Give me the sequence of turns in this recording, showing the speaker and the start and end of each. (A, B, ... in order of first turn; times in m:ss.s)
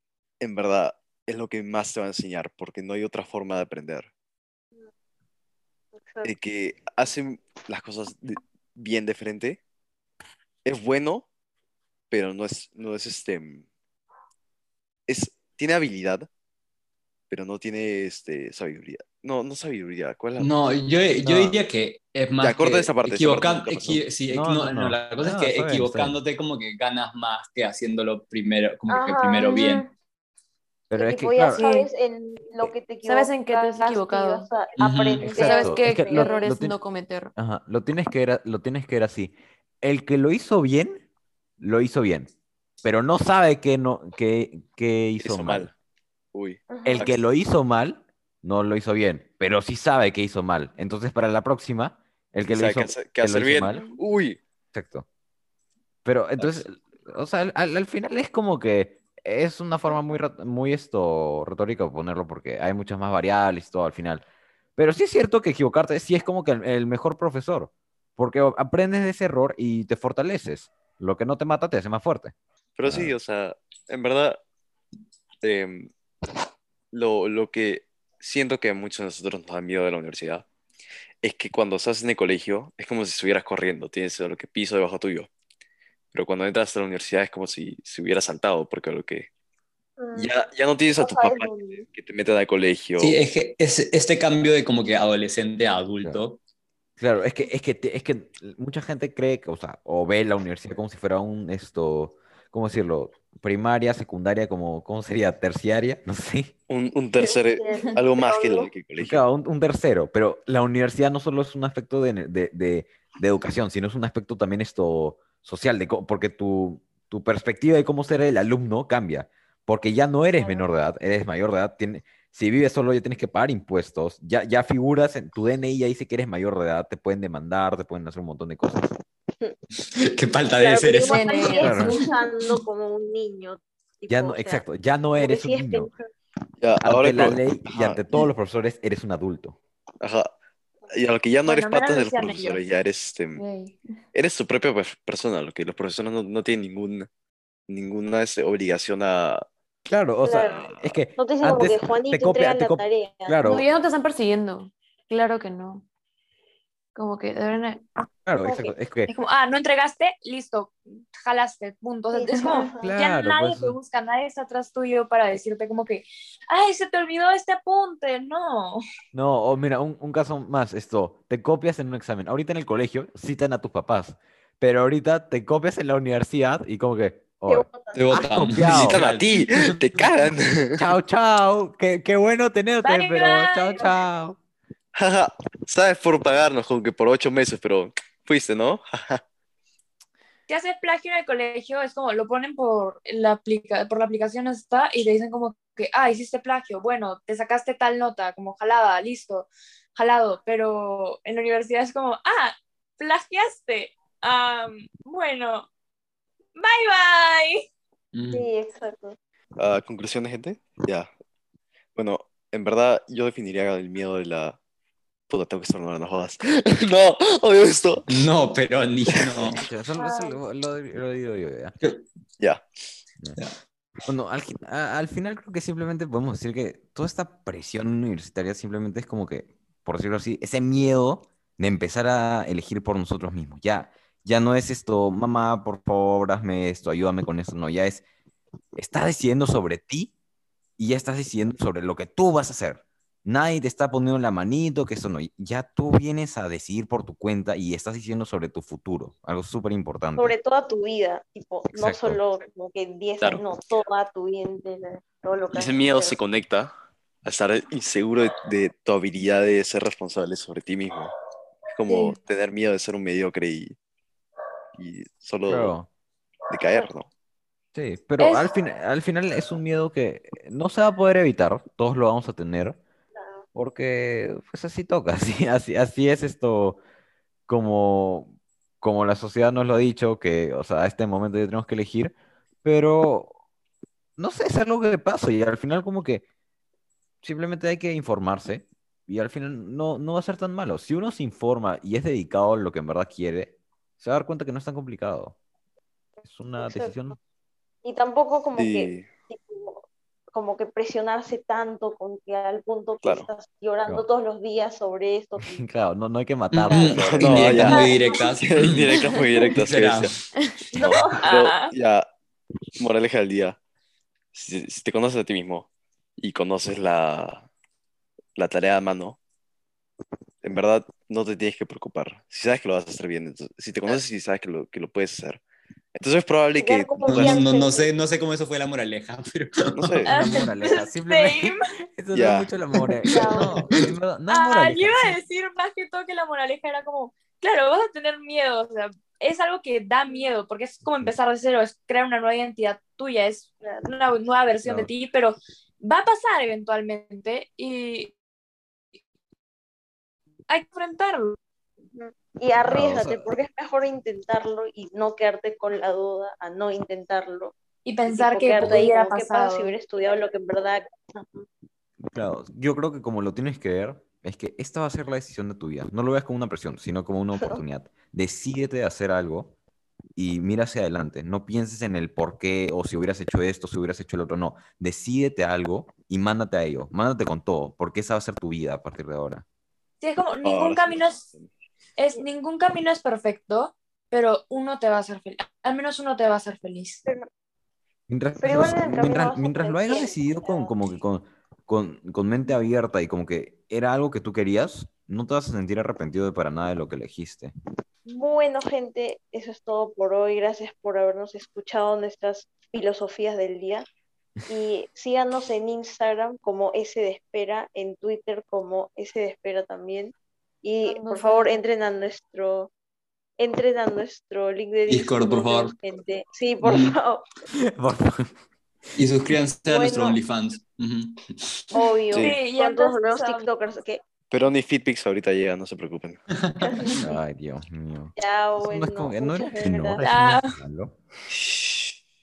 0:00.4-0:04.1 A
0:06.0-0:06.3 B
0:06.2-0:09.6 A
0:10.6-0:11.3 A
0:12.1-0:13.6 A
0:15.1-0:16.3 A
0:17.3-0:20.5 A
0:20.4-0:29.8 C
0:21.2-0:21.6 D
0:22.4-0:24.0 A
0:24.3-0:26.2 D
0:28.9-0:29.7 B
0:29.4-0:29.9 E
0:30.9-0:31.7 D
0:30.9-0:36.5 B
0:33.0-0:34.5 E
0:34.8-0:35.3 C
0:35.2-0:37.3 E
0:35.3-0:36.8 D
0:37.4-0:41.0 D
0:41.6-0:42.3 D
0:42.8-0:45.7 D
0:45.2-0:45.7 A
0:46.3-0:47.1 A
0:46.7-0:47.1 B
0:46.8-0:53.8 D
0:52.5-0:54.4 A
0:54.7-0:55.0 D
0:56.0-1:04.2 D
0:56.4-0:56.6 A
1:04.8-1:12.3 D
1:12.8-1:14.4 A
1:12.8-1:13.1 D
1:15.4-1:15.9 A
1:16.9-1:20.4 A
1:21.2-1:25.3 A
1:26.1-1:29.3 A
1:30.0-1:30.3 B
1:30.1-1:33.2 A
1:30.9-1:31.8 B
1:33.0-1:36.4 C
1:37.0-1:46.5 D
1:46.7-1:49.2 A
1:47.2-1:48.7 B
1:49.0-2:08.8 D
2:00.4-2:00.6 B
2:10.0-2:11.4 C
2:10.6-2:14.6 B
2:11.0-2:12.1 E
2:11.6-2:12.0 D
2:14.1-2:15.9 D
2:15.2-2:16.1 B
2:16.6-2:18.3 A
2:16.8-2:19.6 D
2:20.0-2:20.3 A
2:20.9-2:23.4 A
2:21.4-2:22.6 F
2:23.4-2:23.8 E
2:24.1-2:27.1 A
2:27.7-2:29.4 A
2:29.9-2:33.7 D
2:30.2-2:33.4 B
2:33.4-2:35.8 E
2:36.9-2:37.9 E
2:38.2-2:39.1 D
2:38.4-2:38.7 B
2:39.1-2:48.8 F
2:42.1-2:42.9 B
2:42.3-2:42.7 E
2:42.8-2:43.8 D
2:49.1-2:59.0 D
2:57.5-2:58.2 B
2:57.9-2:59.5 C
2:58.5-3:00.9 A
3:00.8-3:04.4 D
3:02.8-3:04.0 F
3:04.9-3:09.2 A
3:10.5-3:25.7 F
3:26.6-3:27.7 F
3:28.1-3:28.4 C
3:28.3-3:29.2 B
3:29.6-3:31.1 A
3:32.0-3:34.6 A
3:35.3-3:38.0 A
3:38.1-3:39.6 C
3:39.1-3:39.4 A
3:39.5-3:41.7 D
3:40.0-3:40.4 B
3:42.4-3:42.6 A
3:44.1-3:58.0 D
3:58.8-4:00.1 D
4:00.8-4:10.3 D
4:10.2-4:16.2 B
4:11.7-4:12.2 D
4:15.5-4:16.7 A
4:17.2-4:21.1 A
4:21.7-4:23.7 A
4:21.9-4:22.1 F
4:24.8-4:25.7 A
4:25.4-4:25.9 D
4:26.5-4:27.1 A
4:27.7-4:32.8 D
4:28.2-4:28.5 F
4:33.5-4:36.8 D
4:37.5-4:43.3 D
4:44.2-4:46.2 D
4:47.2-4:55.4 D
4:56.2-4:57.2 D
4:56.6-4:56.9 B
4:57.8-5:05.6 B
4:58.5-4:59.1 A
5:03.0-5:03.3 A
5:05.4-5:07.7 D
5:06.5-5:10.1 C
5:06.9-5:10.2 A
5:07.6-5:08.2 B
5:10.7-5:12.1 A
5:10.8-5:11.7 F
5:10.8-5:11.2 B
5:12.8-5:13.6 A
5:14.3-5:17.5 A
5:18.4-5:19.2 A
5:20.4-5:25.4 A
5:25.9-5:27.4 A
5:26.6-5:27.9 B
5:27.1-5:30.1 C
5:29.7-5:30.1 A
5:30.0-5:35.2 D
5:30.1-5:31.6 F
5:32.1-5:32.5 A
5:33.1-5:33.5 B
5:33.3-5:33.7 C
5:34.3-5:48.1 F
5:44.6-5:44.9 D
5:50.5-5:51.4 F
5:51.9-5:57.5 B
5:52.6-5:53.4 D
5:57.8-5:59.7 F
5:58.0-6:01.5 B
6:02.1-6:09.5 D
6:10.2-6:19.4 D
6:20.0-6:21.2 F
6:20.4-6:21.5 A
6:22.0-6:27.0 F
6:28.1-6:37.5 D
6:28.4-6:30.8 B
6:38.1-6:43.9 B
6:44.5-6:52.7 B
6:50.9-6:51.6 E
6:53.4-6:57.2 B
6:54.9-6:55.7 C
6:56.6-6:57.0 C
6:57.6-6:58.3 D
6:59.0-7:01.6 C
6:59.7-7:00.2 B
7:01.7-7:04.0 B
7:02.1-7:02.4 A
7:02.2-7:03.5 F
7:04.3-7:06.2 A
7:06.6-7:07.0 B
7:07.0-7:10.9 D
7:08.2-7:10.0 B
7:10.0-7:10.6 F
7:11.3-7:11.9 A